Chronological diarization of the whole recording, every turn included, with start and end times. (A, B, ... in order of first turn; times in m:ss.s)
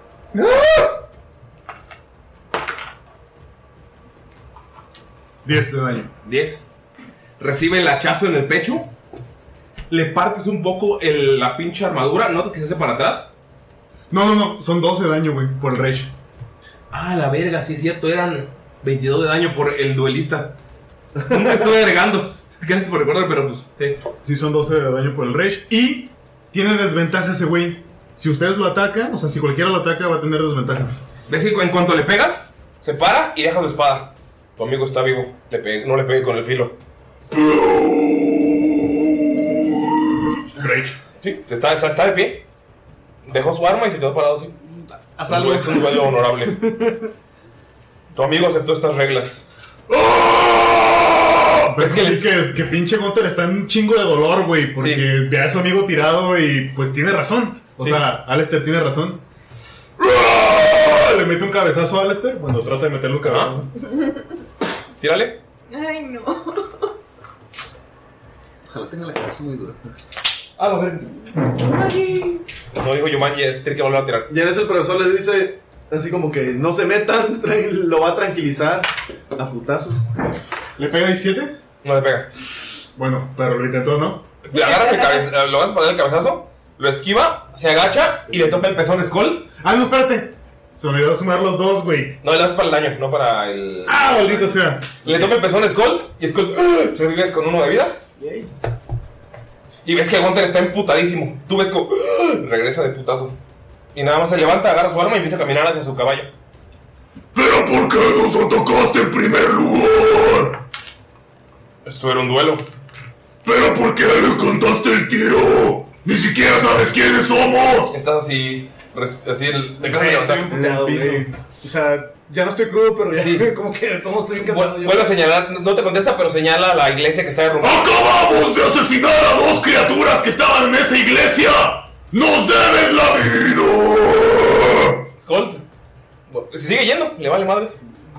0:00.3-0:00.9 A
0:05.4-0:06.1 A
0:06.2-0:06.6 B
0:07.4-0:08.9 B
0:09.9-0:13.3 B
0:14.1-0:16.1 A
0:16.9-0:20.5 B
0:21.3-0:24.0 B
0:24.2-0:30.9 A
0:31.3-0:36.7 B
0:37.3-0:38.4 C
0:40.6-0:40.9 A
0:41.2-0:42.4 B
0:43.2-0:44.6 B
0:45.2-0:47.0 D
0:45.2-0:46.6 B
0:48.1-0:49.4 B
0:49.9-0:51.5 C
0:51.7-0:59.2 A
0:51.8-0:52.2 B
0:54.8-0:55.1 B
1:00.0-1:01.0 C
1:00.7-1:03.7 A
1:03.2-1:03.5 B
1:05.0-1:05.4 B
1:05.7-1:06.8 E
1:08.6-1:09.9 D
1:10.6-1:11.0 D
1:12.8-1:14.3 B
1:14.3-1:20.0 F
1:20.8-1:21.6 A
1:21.8-1:22.3 B
1:23.0-1:24.2 A
1:24.5-1:29.5 B
1:24.5-1:25.3 E
1:29.6-1:32.2 A
1:32.2-1:38.0 B
1:33.8-1:35.2 A
1:38.2-1:38.5 D
1:39.8-1:43.4 B
1:43.9-1:46.3 B
1:47.3-1:50.6 C
1:51.8-1:52.7 B
1:53.4-1:58.0 C
1:57.9-2:00.5 B
1:59.8-2:05.1 D
2:00.5-2:01.3 F
2:03.2-2:03.5 B
2:04.3-2:08.0 B
2:07.6-2:15.0 C
2:15.2-2:15.6 B
2:16.3-2:17.8 B